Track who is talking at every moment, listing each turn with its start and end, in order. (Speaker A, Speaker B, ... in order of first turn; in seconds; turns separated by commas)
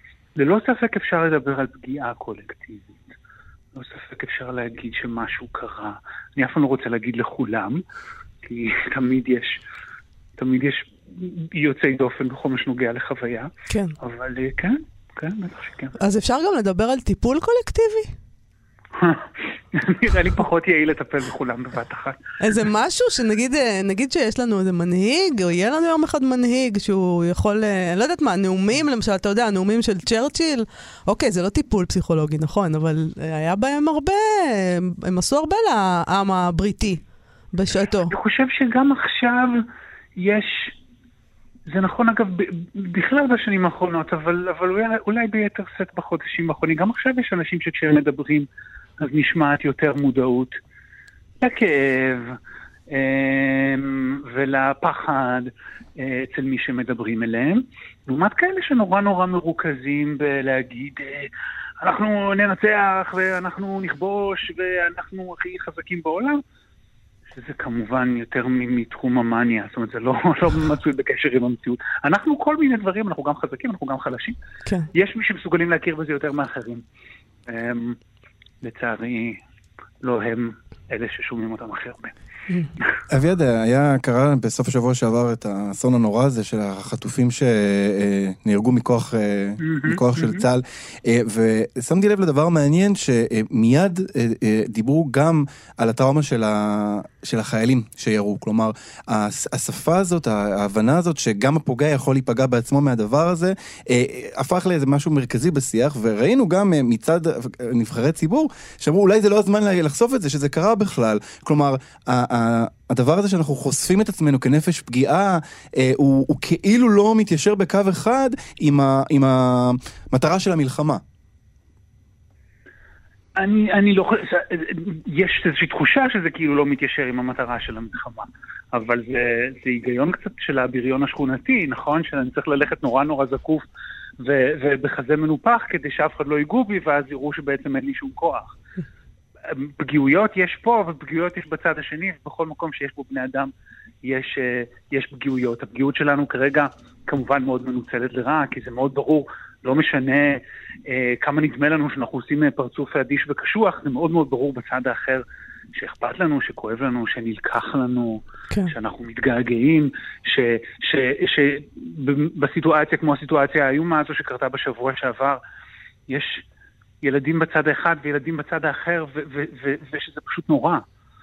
Speaker A: 0.4-3.1, Speaker A: 3.7-7.8, Speaker A: 8.4-9.6, Speaker A: 10.4-16.0, Speaker B: 13.7-13.9, Speaker B: 16.0-18.1, Speaker A: 19.0-22.6, Speaker B: 22.4-37.0, Speaker B: 37.5-38.1, Speaker A: 38.1-39.6, Speaker A: 40.2-40.8, Speaker A: 41.7-48.5, Speaker A: 49.0-50.5, Speaker A: 51.4-66.4, Speaker A: 67.3-74.4, Speaker A: 74.9-76.8, Speaker A: 77.5-78.0, Speaker A: 78.6-79.4, Speaker A: 80.0-82.2, Speaker C: 83.1-121.0, Speaker A: 89.6-90.5, Speaker A: 123.4-133.7, Speaker A: 134.2-138.6, Speaker A: 139.4-165.4, Speaker A: 166.1-166.4, Speaker A: 167.0-170.8